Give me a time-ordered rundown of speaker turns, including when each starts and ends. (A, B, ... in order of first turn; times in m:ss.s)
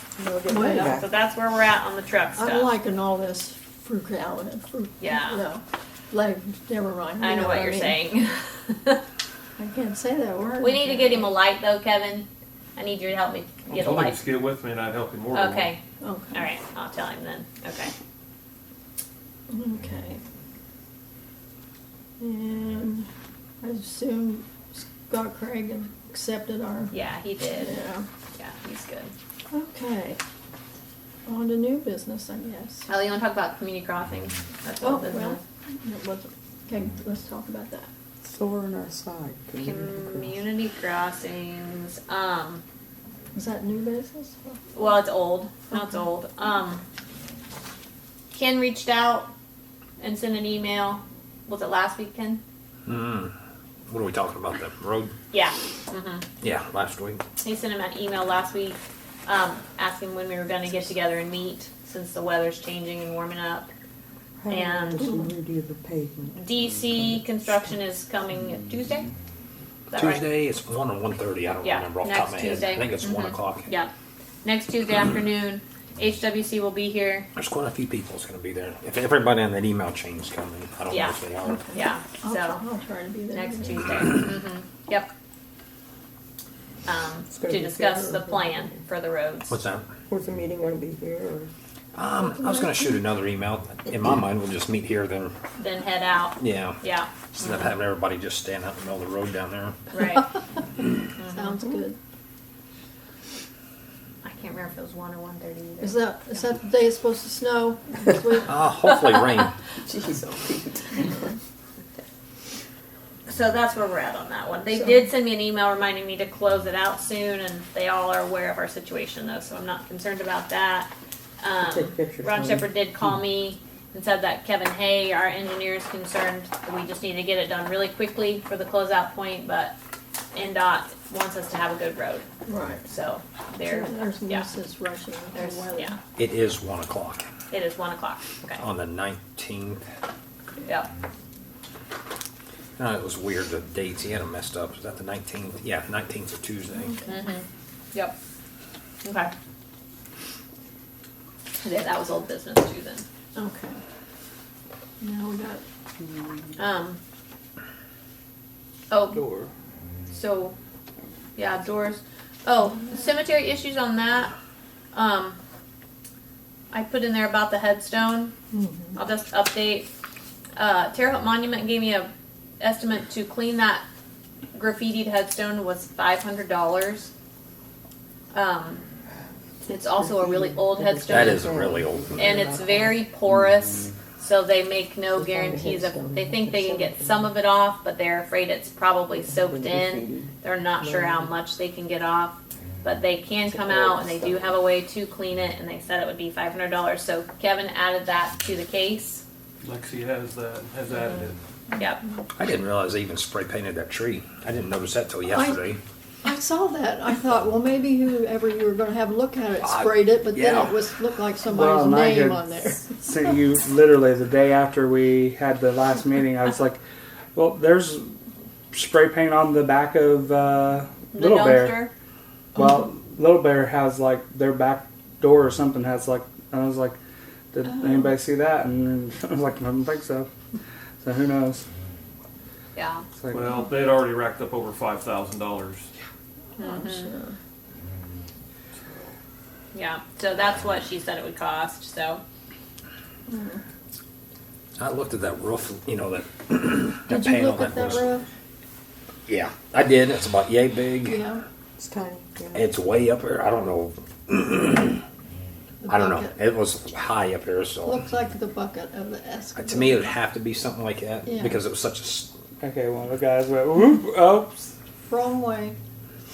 0:00.2-0:01.0 A
0:00.5-0:00.9 B
0:00.7-0:02.7 C
0:02.4-0:08.0 B
0:05.0-0:05.4 C
0:07.2-0:09.0 C
0:09.6-0:11.3 B
0:10.6-0:14.2 C
0:13.7-0:15.8 D
0:15.3-0:15.8 C
0:16.0-0:16.4 B
0:16.3-0:17.9 C
0:19.5-0:20.2 B
0:22.2-0:23.1 B
0:23.6-0:26.9 B
0:26.9-0:27.8 C
0:27.6-0:28.0 B
0:28.4-0:29.1 C
0:29.5-0:30.2 B
0:31.2-0:32.9 B
0:32.9-0:35.4 C
0:34.8-0:37.9 B
0:38.2-0:40.4 A
0:39.6-0:42.6 C
0:43.3-0:44.9 B
0:44.7-0:46.8 C
0:48.3-0:49.3 C
0:50.0-0:52.4 C
0:52.8-0:53.3 E
0:53.9-0:55.1 E
0:55.3-0:56.2 C
0:56.4-0:57.2 E
0:57.4-1:03.7 C
1:04.4-1:06.4 A
1:04.5-1:05.2 C
1:06.4-1:09.1 C
1:09.9-1:10.2 C
1:10.0-1:13.7 E
1:11.6-1:13.9 C
1:14.4-1:17.3 C
1:17.4-1:21.6 E
1:20.9-1:21.2 C
1:21.4-1:24.1 B
1:21.7-1:22.6 C
1:23.3-1:25.1 C
1:26.8-1:29.6 C
1:27.3-1:28.8 A
1:29.5-1:29.9 E
1:30.1-1:31.5 A
1:31.9-1:35.3 E
1:35.6-1:37.7 C
1:36.4-1:36.8 E
1:37.3-1:39.9 E
1:39.9-1:40.3 C
1:41.2-1:41.5 C
1:41.3-1:42.0 B
1:44.2-1:46.0 C
1:45.8-1:48.9 B
1:48.4-1:49.5 E
1:49.8-1:51.3 A
1:53.2-2:09.7 C
1:54.7-1:55.0 B
2:01.6-2:03.1 A
2:10.3-2:12.2 C
2:12.4-2:12.8 B
2:12.8-2:14.5 C
2:13.6-2:16.0 B
2:15.3-2:16.0 C
2:16.2-2:17.3 E
2:17.5-2:18.6 C
2:18.6-2:19.8 E
2:22.8-2:26.9 E
2:26.7-2:27.2 B
2:27.1-2:28.1 C
2:29.0-2:29.3 C
2:31.6-2:33.0 C
2:33.3-2:33.8 B
2:35.0-2:35.6 B
2:36.6-2:37.0 C
2:38.9-2:39.2 C
2:39.2-2:39.5 F
2:40.1-2:40.5 C
2:41.4-2:44.3 C
2:44.9-2:45.4 C
2:46.7-2:48.3 C
2:48.5-2:48.9 B
2:49.0-2:49.9 C
2:50.6-2:53.8 C
2:54.5-2:57.1 C
2:58.3-2:58.8 C
2:59.6-3:01.5 C
2:59.7-3:03.0 A
3:01.1-3:02.3 E
3:02.2-3:19.2 C
3:03.5-3:03.9 F
3:05.1-3:07.3 A
3:09.1-3:11.3 A
3:13.5-3:14.5 A
3:19.6-3:21.4 D
3:21.8-3:22.0 C
3:22.4-3:25.8 E
3:25.3-3:25.6 B
3:26.2-3:32.9 B
3:29.6-3:30.8 E
3:31.5-3:36.8 F
3:37.3-3:38.0 F
3:38.7-3:41.9 F
3:41.1-3:41.9 C
3:42.5-3:47.0 F
3:47.5-3:50.3 F
3:47.7-3:48.0 B
3:51.0-3:51.6 F
3:52.7-3:53.0 C
3:53.2-3:53.5 F
3:53.3-3:55.9 D
3:56.6-3:57.1 C
3:56.6-3:57.4 B
3:59.7-4:02.2 C
4:03.3-4:03.6 B
4:04.8-4:08.1 E
4:07.1-4:08.2 B
4:09.3-4:11.2 E
4:11.0-4:11.4 B
4:11.8-4:12.7 A
4:12.5-4:15.0 E
4:15.8-4:16.4 B
4:15.9-4:18.0 E
4:17.8-4:20.1 B
4:19.6-4:22.3 E
4:21.2-4:21.6 B
4:22.6-4:24.7 F
4:25.1-4:25.8 B